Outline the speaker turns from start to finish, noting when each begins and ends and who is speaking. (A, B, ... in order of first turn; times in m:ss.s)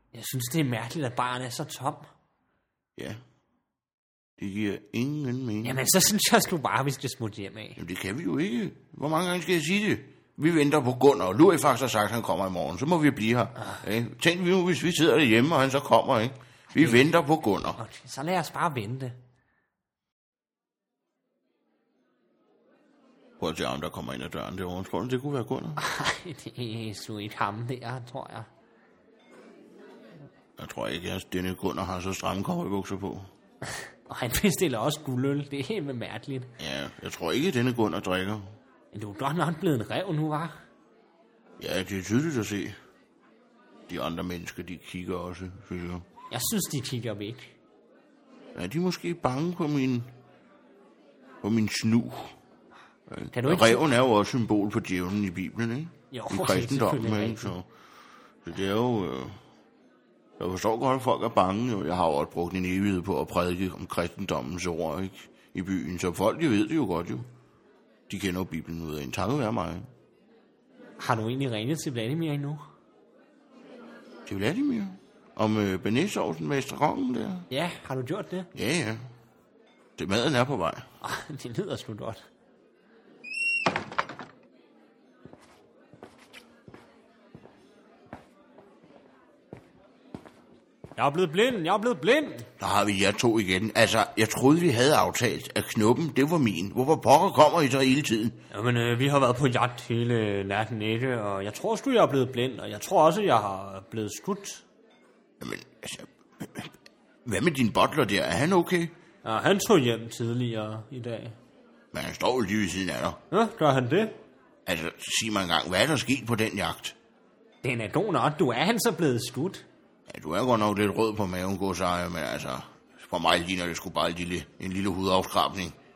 0:00.1-0:02.1 A
0:03.0-0:03.2 B
0:04.4-0:05.8 B
0:05.6-0:07.8 A
0:07.8-0:17.8 B
0:16.7-0:17.0 A
0:17.8-0:19.2 A
0:23.4-0:25.8 B
0:25.8-0:28.5 A
0:30.6-0:33.3 B
0:33.8-0:36.5 A
0:36.6-0:38.5 B
0:38.9-0:40.6 A
0:41.6-0:42.8 B
0:43.9-0:46.0 B
0:46.3-0:47.5 A
0:48.5-0:50.1 B
0:51.4-0:52.3 B
0:53.1-0:57.7 B
0:53.3-0:53.9 A
0:56.1-0:57.5 A
0:58.4-0:59.4 B
1:00.4-1:07.3 B
1:08.1-1:09.9 B
1:11.0-1:12.6 A
1:14.2-1:17.5 B
1:17.5-1:18.5 A
1:18.5-1:19.0 B
1:20.0-1:20.9 B
1:21.0-1:22.2 A
1:31.0-1:32.5 A
1:32.6-1:38.4 B
1:38.5-1:44.6 A
1:45.4-1:46.7 B
1:47.2-1:48.9 B
1:49.2-1:51.4 A
1:51.9-1:53.2 B
1:53.3-1:54.2 A
1:54.6-1:56.9 B
1:57.6-1:59.6 A
2:00.1-2:05.8 B